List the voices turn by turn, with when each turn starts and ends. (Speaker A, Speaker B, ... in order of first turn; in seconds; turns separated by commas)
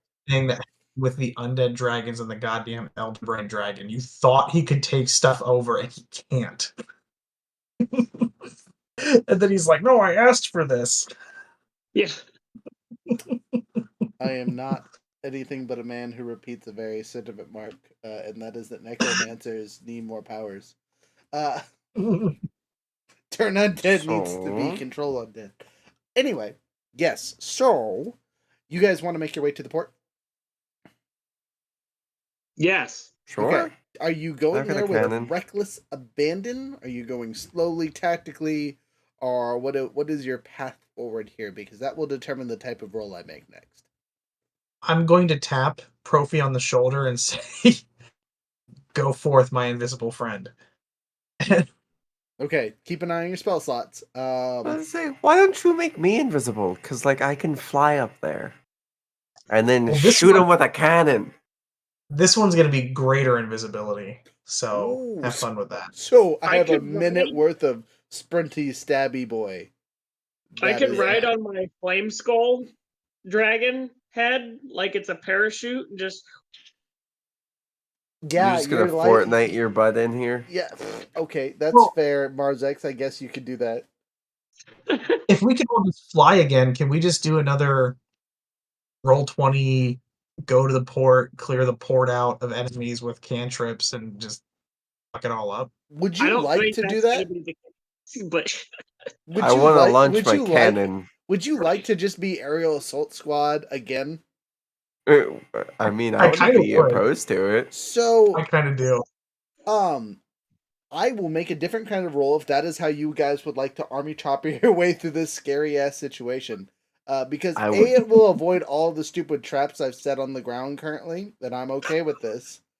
Speaker A: 0.3-6.7, Speaker A: 7.9-8.3, Speaker A: 9.0-11.1, Speaker A: 13.1-13.6, Speaker B: 14.2-20.7, Speaker B: 21.3-21.6, Speaker A: 22.0-22.4, Speaker B: 23.3-25.6, Speaker C: 24.0-24.8, Speaker B: 26.1-28.2, Speaker B: 28.7-29.9, Speaker D: 32.6-33.1, Speaker C: 33.3-33.7, Speaker B: 33.4-43.8, Speaker C: 34.5-35.3, Speaker A: 44.8-47.9, Speaker A: 48.9-50.5, Speaker B: 52.4-54.8, Speaker C: 54.6-58.5, Speaker C: 59.5-61.3, Speaker A: 59.9-60.5, Speaker A: 62.1-65.9, Speaker B: 64.7-69.7, Speaker D: 66.5-67.4, Speaker B: 70.5-71.3, Speaker D: 70.6-72.7, Speaker D: 73.2-76.2, Speaker B: 78.2-79.6, Speaker C: 78.3-80.5, Speaker B: 80.5-83.8, Speaker D: 84.9-85.2, Speaker A: 85.3-88.0, Speaker A: 89.0-94.4, Speaker A: 95.1-95.7, Speaker B: 95.9-97.3, Speaker D: 96.2-98.7, Speaker B: 99.3-104.2, Speaker C: 99.4-101.1, Speaker C: 105.0-107.7, Speaker A: 106.2-107.0, Speaker B: 107.7-108.4, Speaker A: 108.3-109.0, Speaker B: 109.7-110.2, Speaker B: 110.9-122.6, Speaker C: 117.5-118.0